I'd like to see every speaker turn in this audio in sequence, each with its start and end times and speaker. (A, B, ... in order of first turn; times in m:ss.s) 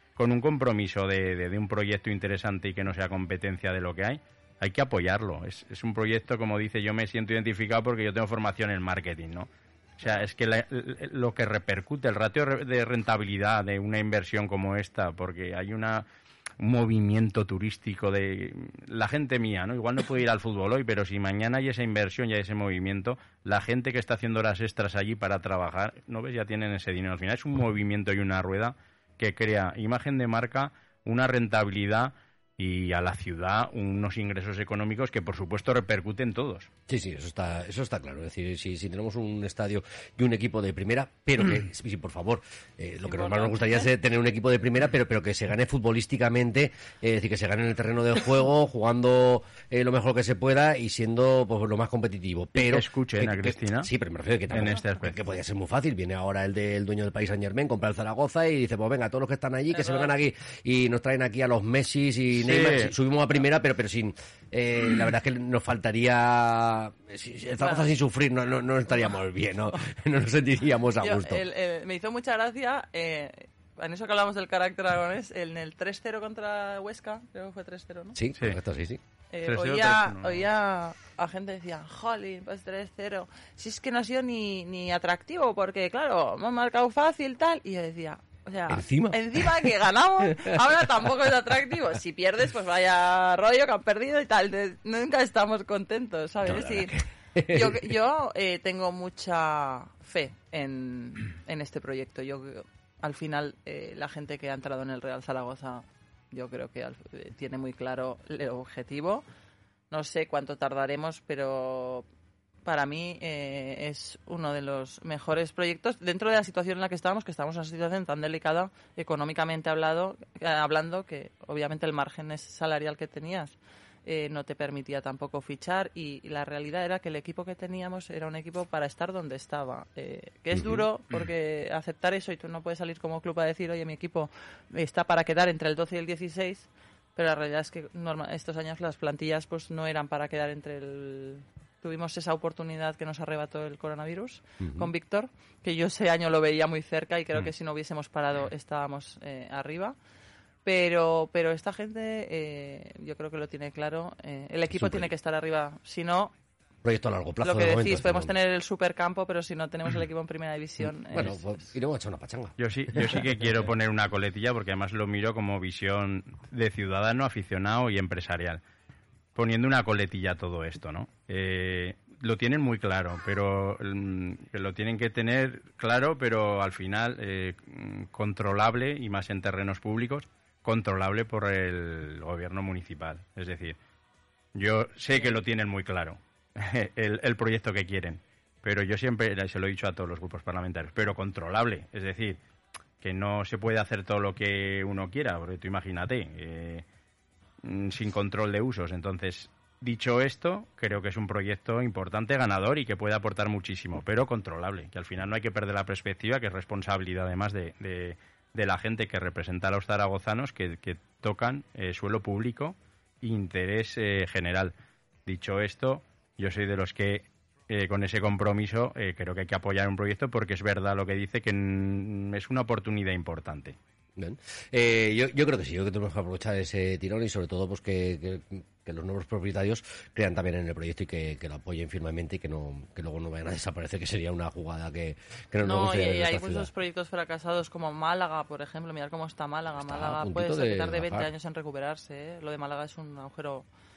0:00.2-0:16.0 A
0:16.6-0:36.7 A
0:36.9-1:11.4 B
0:43.1-0:43.6 C
0:52.6-0:53.9 A
0:54.5-0:55.2 A
0:59.8-1:00.1 C
1:02.4-1:02.9 A
1:07.6-1:07.9 C
1:11.0-1:18.2 C
1:18.2-1:19.0 B
1:19.3-1:49.2 C
1:19.5-1:20.5 A
1:28.7-1:29.7 B
1:30.2-1:30.6 B
1:36.4-1:37.9 B
1:49.9-1:52.1 C
1:52.6-2:30.0 C
2:10.5-2:10.8 B
2:24.6-2:24.9 B
2:30.6-2:36.3 C
2:34.7-2:35.1 B
2:36.8-2:38.3 B
2:37.4-2:41.4 C
2:41.1-2:43.4 B
2:42.6-2:48.6 A
2:49.4-3:03.8 A
3:04.6-3:12.4 A
3:13.0-3:16.8 A
3:17.6-3:34.7 A
3:35.3-3:43.8 A
3:44.2-3:56.7 B
3:55.6-4:03.7 C
3:59.8-4:01.3 B